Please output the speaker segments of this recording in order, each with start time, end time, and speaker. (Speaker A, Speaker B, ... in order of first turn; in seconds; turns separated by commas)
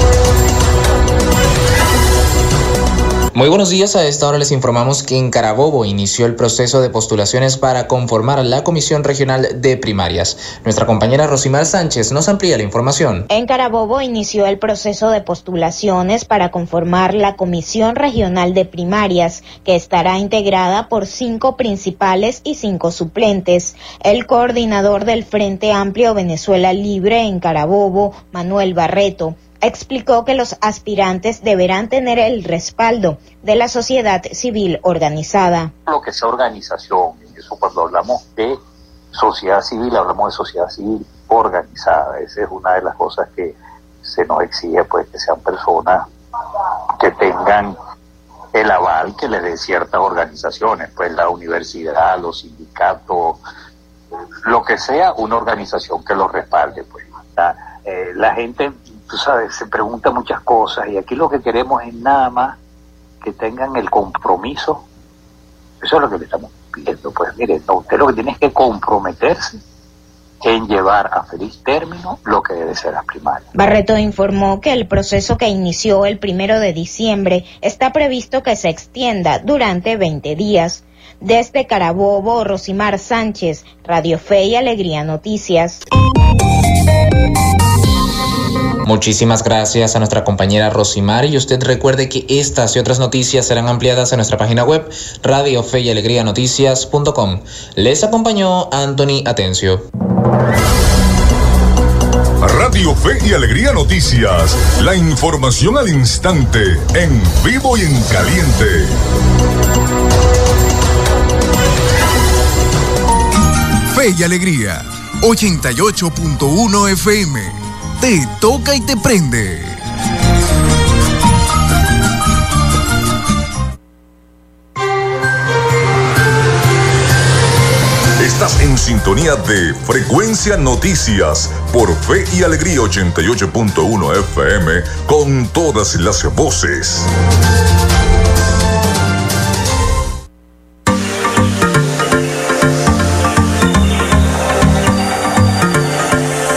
Speaker A: 3.3-13.3, Speaker B: 13.3-35.7, Speaker C: 35.9-38.6, Speaker C: 39.1-46.0, Speaker C: 47.0-47.7, Speaker C: 48.5-53.4, Speaker C: 54.5-62.5, Speaker C: 63.2-64.8, Speaker C: 65.8-69.6, Speaker C: 70.4-73.5, Speaker B: 73.5-85.8, Speaker A: 88.8-99.8, Speaker D: 102.4-109.0, Speaker E: 113.9-119.8, Speaker D: 128.2-137.1